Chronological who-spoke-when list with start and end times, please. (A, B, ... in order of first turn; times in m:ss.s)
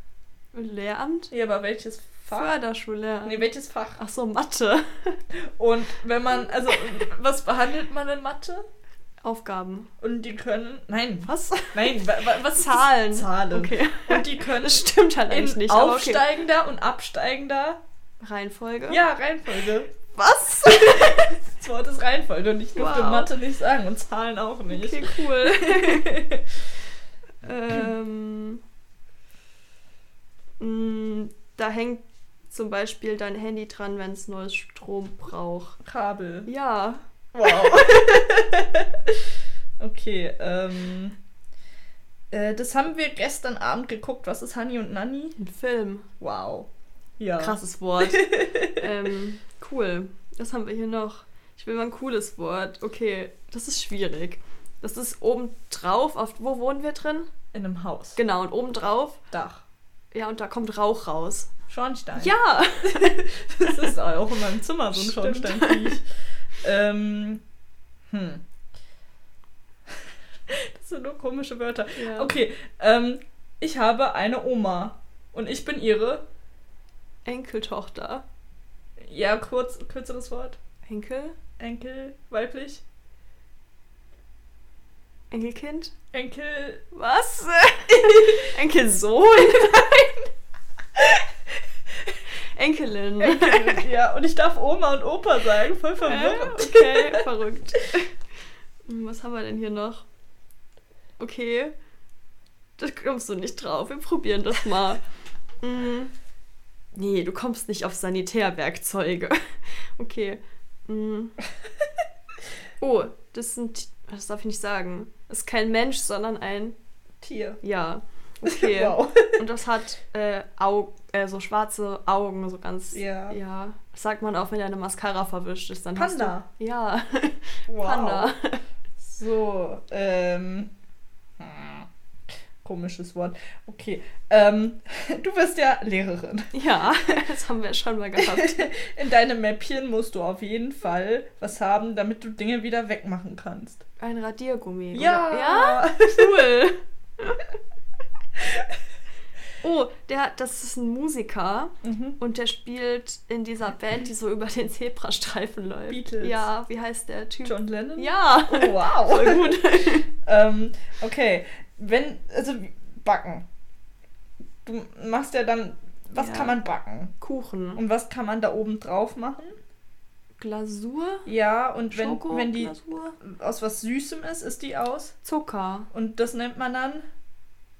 0:00.5-0:01.3 A
0:01.3-0:02.5 B
0:02.3-0:05.2 A
0:03.2-0:04.0 B
0:05.6-0:08.6 B
0:09.2-0:09.9 A
0:10.0-0:17.8 B
0:11.2-0:16.3 A
0:18.2-0:19.0 A
0:18.9-0:19.9 B
0:20.1-0:21.4 A
0:20.6-0:26.4 B
0:22.7-0:23.3 A
0:24.7-0:26.2 A
0:27.4-0:28.6 A
0:30.6-0:35.8 A
0:35.8-0:36.5 B
0:36.4-0:38.2 A
0:37.3-0:39.1 B
0:39.8-0:41.2 B
0:42.3-0:45.4 B
0:45.4-0:46.1 A
0:46.2-0:48.9 B
0:47.4-0:57.3 A
0:57.5-0:58.2 B
0:58.2-0:59.2 A
0:59.3-0:59.6 B
1:00.1-1:01.5 A
1:01.7-1:02.3 B
1:02.2-1:03.9 A
1:02.9-1:06.0 B
1:04.9-1:06.0 A
1:06.6-1:07.4 B
1:08.1-1:08.4 B
1:10.5-1:16.2 B
1:12.0-1:12.3 A
1:17.2-1:18.2 A
1:19.0-1:20.6 B
1:20.9-1:21.4 A
1:21.6-1:22.8 B
1:25.3-1:25.9 A
1:26.1-1:26.8 B
1:26.9-1:30.3 A
1:27.9-1:28.6 B
1:29.6-1:30.0 B
1:32.4-1:33.9 A
1:33.2-1:37.3 B
1:36.0-1:38.1 A
1:38.8-1:40.0 A
1:41.2-1:41.7 A
1:42.8-1:45.0 A
1:45.6-1:46.1 A
1:46.9-1:51.4 A
1:52.8-1:56.8 A
1:57.2-1:57.6 B
1:57.6-2:08.6 A
1:58.4-1:59.4 B
2:02.9-2:03.4 B
2:05.9-2:06.4 B
2:07.7-2:08.3 B
2:09.0-2:10.7 B
2:11.4-2:11.9 B
2:12.6-2:16.5 B
2:16.5-2:18.7 A
2:18.2-2:23.8 B
2:24.0-2:27.4 A
2:24.9-2:26.5 B
2:29.6-2:40.1 A
2:31.8-2:32.2 B
2:35.9-2:36.5 B
2:37.4-2:43.4 B
2:44.6-2:47.1 B
2:46.1-2:46.6 A
2:47.2-2:47.8 A
2:47.8-2:49.6 B
2:50.4-2:51.3 A
2:51.2-2:55.1 B
2:51.9-2:53.2 A
2:55.2-2:55.9 A
2:55.9-2:57.1 B